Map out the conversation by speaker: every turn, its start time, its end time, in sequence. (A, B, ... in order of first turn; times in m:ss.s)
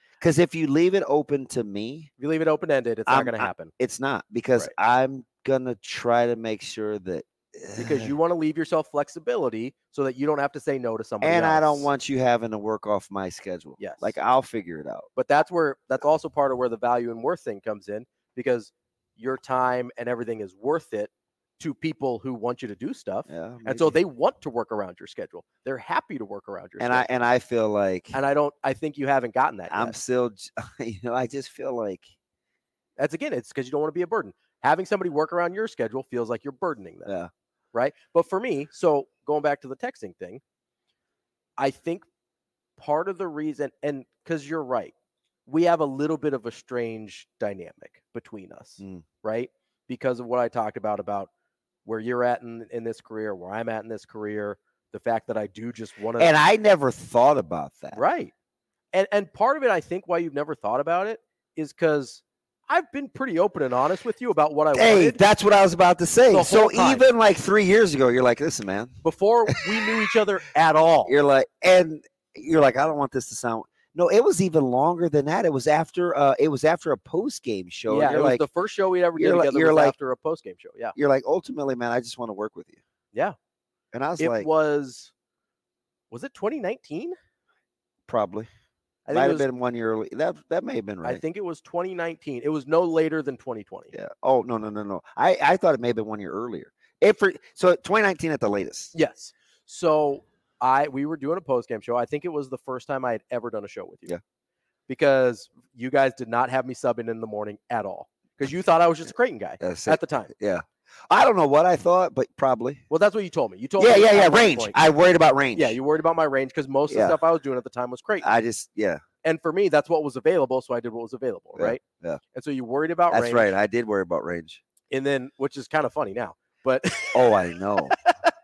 0:00.2-0:02.1 A
0:02.2-0:03.7 B
0:03.1-0:08.1 A
0:07.8-0:11.9 B
0:11.2-0:15.1 A
0:13.8-0:14.1 B
0:15.2-0:27.0 B
0:23.3-0:24.0 A
0:26.8-0:28.2 A
0:28.1-0:29.9 B
0:29.7-0:32.1 A
0:33.0-0:37.1 B
0:37.7-0:40.4 B
0:41.6-0:42.0 B
0:42.8-0:44.9 B
0:45.5-0:51.3 B
0:51.8-0:56.3 B
0:56.2-0:58.0 A
0:57.9-0:58.3 B
0:58.9-1:05.2 B
1:04.7-1:08.9 A
1:06.3-1:07.0 B
1:09.0-1:11.1 B
1:11.0-1:18.4 A
1:17.9-1:20.9 B
1:19.1-1:19.9 A
1:20.9-1:22.8 A
1:23.9-1:24.5 A
1:24.2-1:25.1 B
1:26.1-1:27.2 B
1:28.1-1:28.5 A
1:29.1-1:29.5 B
1:29.1-1:31.2 A
1:31.0-1:33.9 B
1:33.9-1:38.9 A
1:38.9-1:44.1 B
1:44.9-1:50.3 B
1:49.6-1:52.8 A
1:52.9-1:54.8 B
1:53.8-1:55.8 A
1:55.5-1:58.3 B
1:56.9-1:57.2 A
1:58.2-1:59.0 A
1:59.2-2:01.8 B
2:01.5-2:02.2 A
2:02.3-2:03.5 B
2:03.1-2:04.6 A
2:04.9-2:07.4 B
2:07.1-2:07.9 A
2:07.9-2:08.3 B